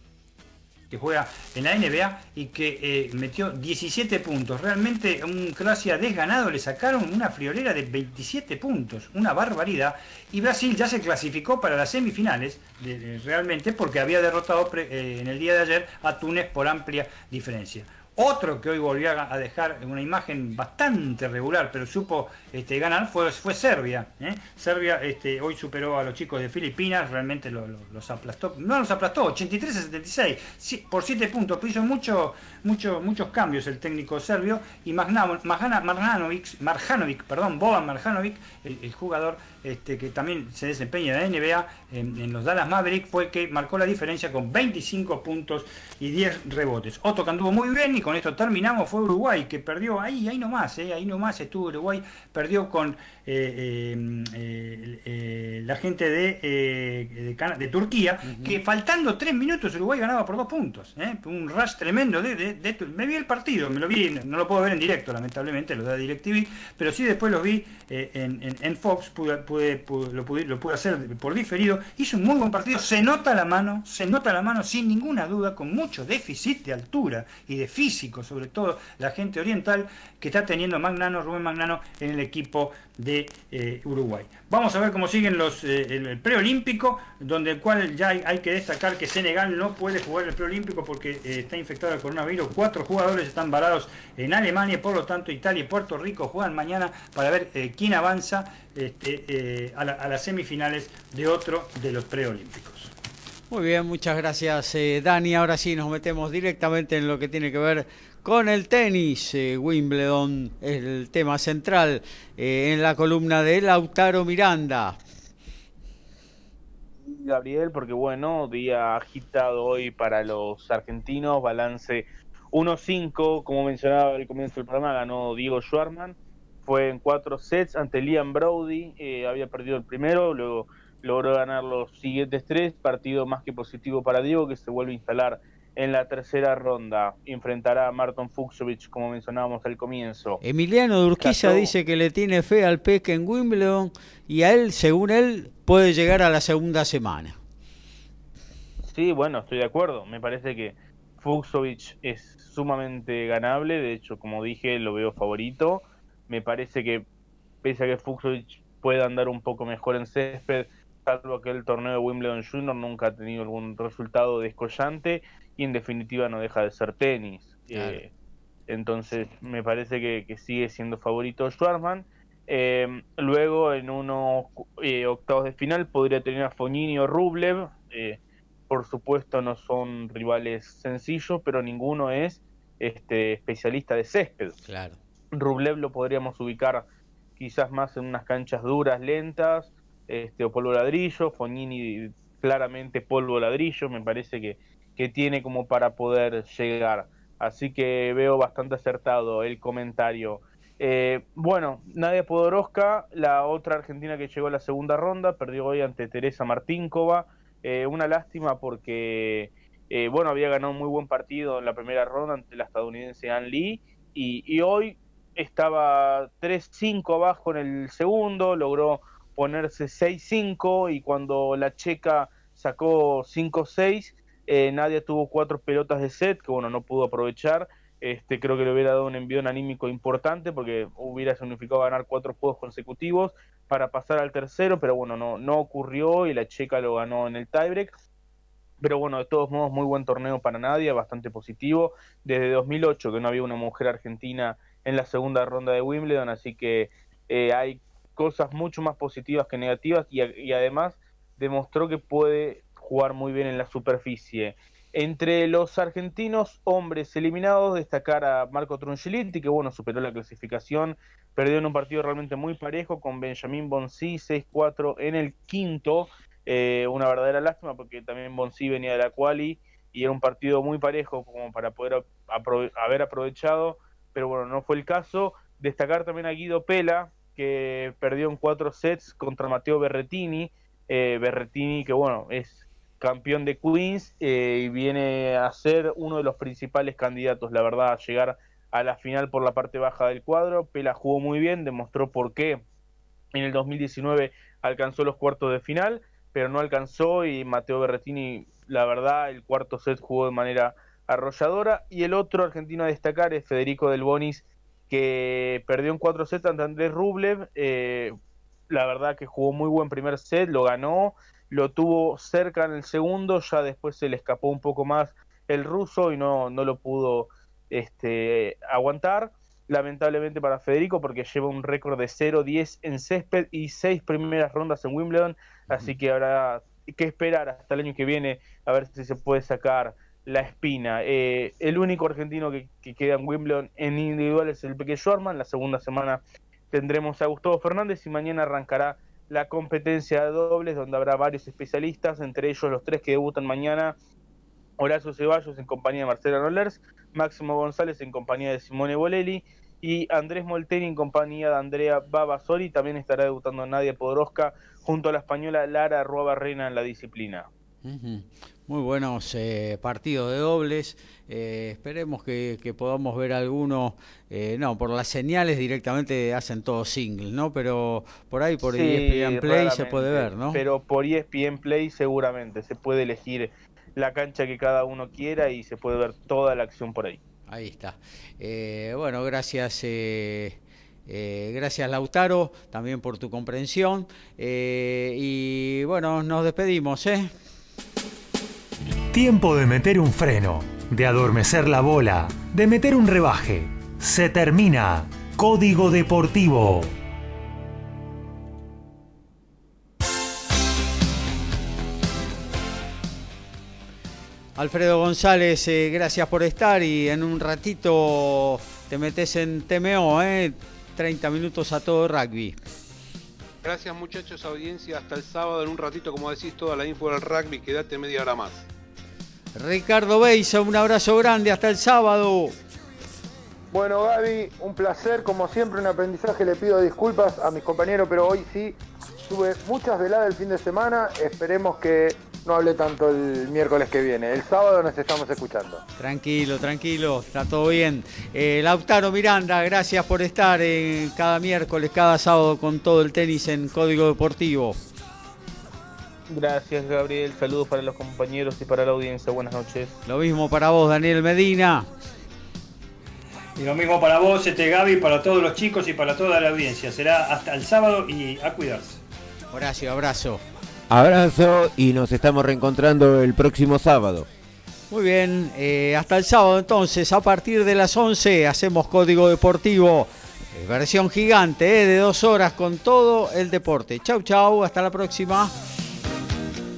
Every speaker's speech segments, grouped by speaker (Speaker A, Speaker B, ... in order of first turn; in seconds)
Speaker A: 0.9-102.9, 453.6-459.0
Speaker B: 58.2-58.6, 103.5-115.0, 140.4-147.4, 167.7-168.0, 184.7-185.0, 357.8-370.6, 377.5-387.3, 404.6-412.6, 419.5-422.5, 436.0-444.8, 450.1-451.9, 459.5-460.4, 464.9-475.5
Speaker C: 117.0-140.4, 141.2-141.7, 148.9-157.1, 157.6-168.1, 168.7-184.6, 185.3-186.9, 187.4-237.9, 238.8-292.6, 293.3-308.1, 308.7-343.9, 344.8-357.5, 368.7-377.2, 446.3-449.9
Speaker D: 389.1-396.9
Speaker E: 413.6-418.6
Speaker F: 423.7-435.8
Speaker G: 460.9-464.3